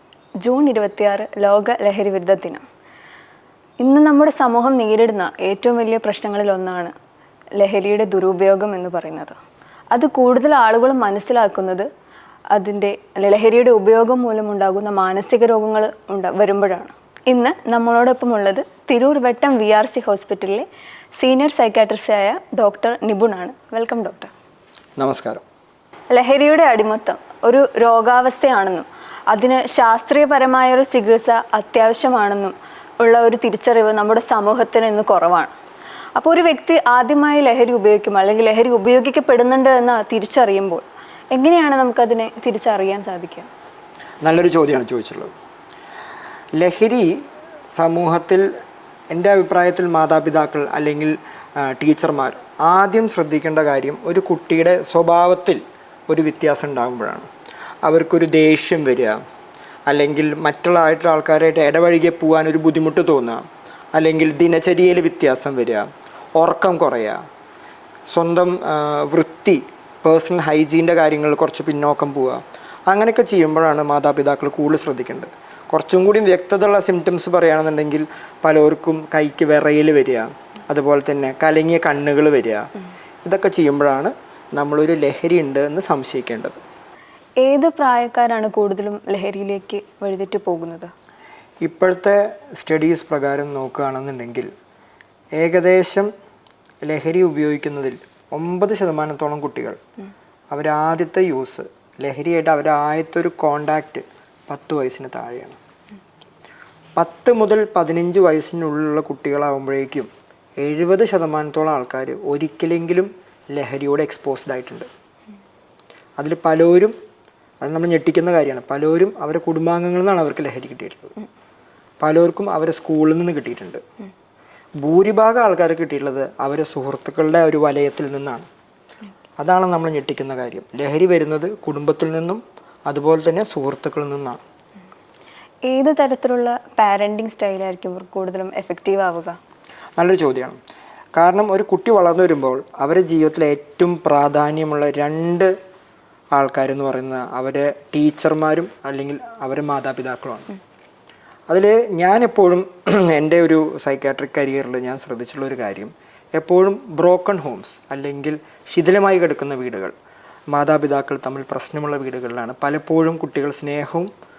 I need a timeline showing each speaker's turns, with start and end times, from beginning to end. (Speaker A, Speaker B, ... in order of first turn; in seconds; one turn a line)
Speaker A: 0.4-2.6
Speaker A: 3.8-6.9
Speaker A: 7.6-9.3
Speaker A: 9.9-11.9
Speaker A: 12.5-20.6
Speaker A: 21.2-24.3
Speaker B: 25.0-25.4
Speaker A: 26.1-35.5
Speaker A: 36.1-43.5
Speaker B: 44.2-45.3
Speaker B: 46.5-47.1
Speaker B: 47.7-48.5
Speaker B: 49.1-57.3
Speaker B: 57.9-59.2
Speaker B: 59.9-63.4
Speaker B: 63.9-67.2
Speaker B: 68.1-82.7
Speaker B: 83.2-86.6
Speaker A: 87.4-90.9
Speaker B: 91.6-94.5
Speaker B: 95.4-96.1
Speaker B: 96.8-99.8
Speaker B: 100.5-105.6
Speaker B: 107.0-114.9
Speaker B: 116.2-116.9
Speaker B: 117.6-121.2
Speaker B: 122.0-123.8
Speaker B: 124.8-128.5
Speaker B: 129.4-134.4
Speaker A: 135.7-139.4
Speaker B: 140.0-140.6
Speaker B: 141.1-145.5
Speaker B: 146.3-150.5
Speaker B: 151.5-159.9
Speaker B: 160.5-164.1